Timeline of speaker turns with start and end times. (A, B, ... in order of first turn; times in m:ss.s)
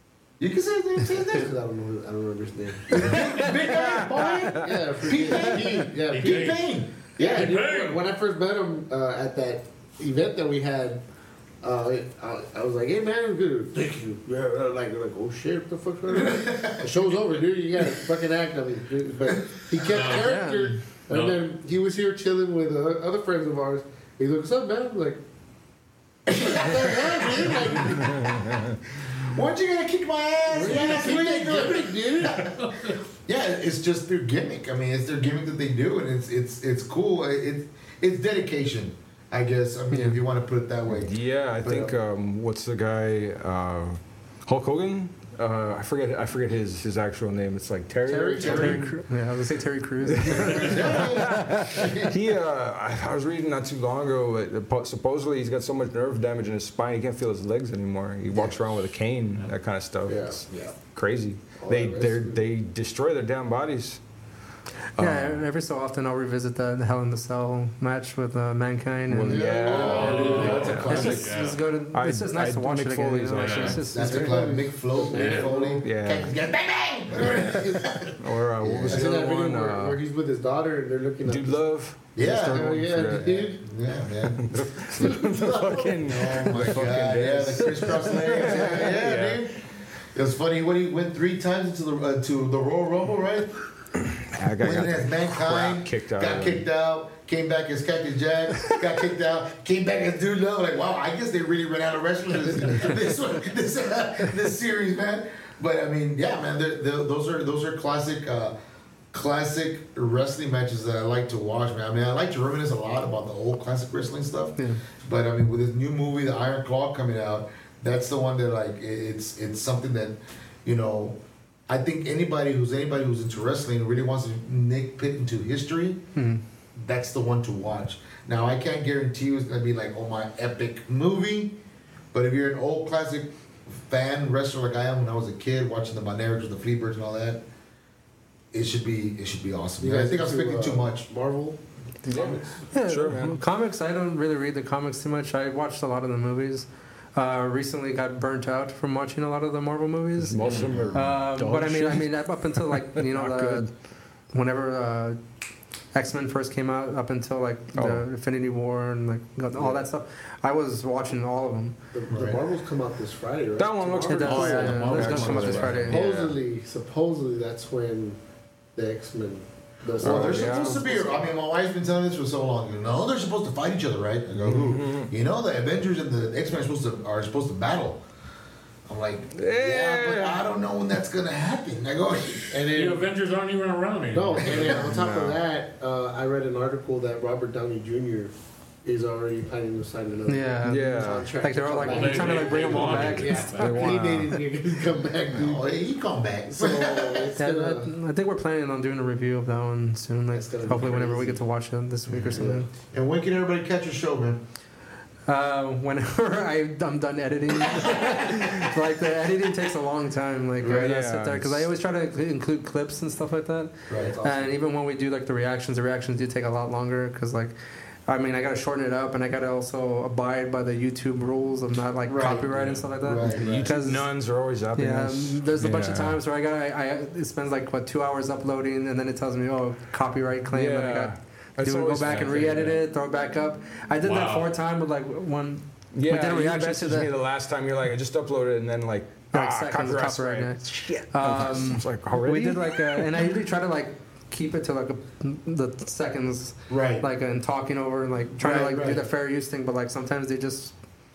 0:00.4-0:01.5 A
0:01.2-0:03.4 B
0:02.9-0:07.5 A
0:03.7-0:04.6 C
0:04.6-0:06.6 B
0:06.1-0:08.0 D
0:07.2-0:11.0 B
0:11.6-0:25.2 B
0:16.1-0:16.9 A
0:19.8-0:20.4 D
0:20.1-0:20.8 E
0:21.1-0:21.4 D
0:26.3-0:28.4 B
0:26.3-0:27.9 A
0:28.0-0:28.8 C
0:29.1-0:32.6 A
0:30.5-0:32.5 B
0:32.4-0:33.0 D
0:33.2-0:41.9 A
0:39.9-0:40.2 E
0:40.9-0:49.0 C
0:48.0-0:48.9 B
0:48.4-0:51.1 E
0:48.4-0:48.8 A
0:50.1-1:04.0 C
0:50.2-0:52.2 A
0:58.3-0:58.7 B
1:00.0-1:00.8 B
1:01.6-1:02.4 B
1:05.0-1:05.4 C
1:05.0-1:09.5 E
1:09.1-1:13.9 C
1:09.2-1:11.2 B
1:09.6-1:11.2 A
1:09.7-1:11.6 D
1:10.7-1:14.4 E
1:13.3-1:13.8 D
1:13.9-1:19.1 A
1:13.9-1:15.9 B
1:15.1-1:15.6 D
1:15.8-1:16.3 C
1:17.1-1:18.1 B
1:18.2-1:20.0 C
1:18.8-1:23.6 B
1:21.2-1:23.4 C
1:22.1-1:29.6 A
1:24.3-1:29.4 C
1:28.5-1:28.8 B
1:30.1-1:33.6 A
1:34.0-1:36.6 C
1:34.6-1:48.5 A
1:49.1-2:01.2 A
2:01.7-2:06.0 A
2:06.2-2:06.4 E
2:06.8-2:11.6 A
2:12.1-2:17.4 A
2:18.5-2:21.1 A
2:19.8-2:22.6 B
2:22.1-2:23.4 C
2:22.7-2:30.4 E
2:30.2-2:33.7 C
2:30.4-2:30.8 D
2:30.5-2:31.0 A
2:30.9-2:33.7 E
2:34.3-2:35.2 E
2:35.9-2:41.7 E
2:37.7-2:38.0 C
2:41.9-2:48.2 B
2:42.1-2:42.4 A
2:43.6-2:46.3 C
2:44.1-2:46.0 E
2:44.3-2:46.1 A
2:48.8-2:51.4 B
2:50.0-2:50.9 C
2:50.0-2:58.0 A
2:54.4-2:55.1 C
2:58.9-3:02.6 A
2:59.3-3:00.4 C
3:02.5-3:03.1 B
3:02.7-3:04.8 D
3:04.1-3:15.6 B
3:04.4-3:04.8 A
3:04.7-3:05.4 C
3:10.3-3:13.6 E
3:10.6-3:11.3 C
3:11.8-3:13.8 D
3:13.6-3:14.4 C
3:15.3-3:17.3 A
3:16.5-3:17.9 B
3:17.4-3:22.7 E
3:20.3-3:21.4 B
3:22.2-3:22.6 B
3:22.9-3:24.4 A
3:25.3-3:37.5 E
3:30.6-3:31.7 C
3:33.9-3:34.2 A
3:33.9-3:34.5 B
3:38.1-3:44.1 E
3:42.1-3:43.7 A
3:43.3-3:43.6 B
3:43.3-3:46.2 C
3:44.7-3:57.1 E
3:50.5-3:52.8 C
3:54.0-3:54.5 D
3:55.9-4:03.2 C
3:59.3-4:10.7 E
4:06.7-4:07.1 A
4:08.4-4:09.0 A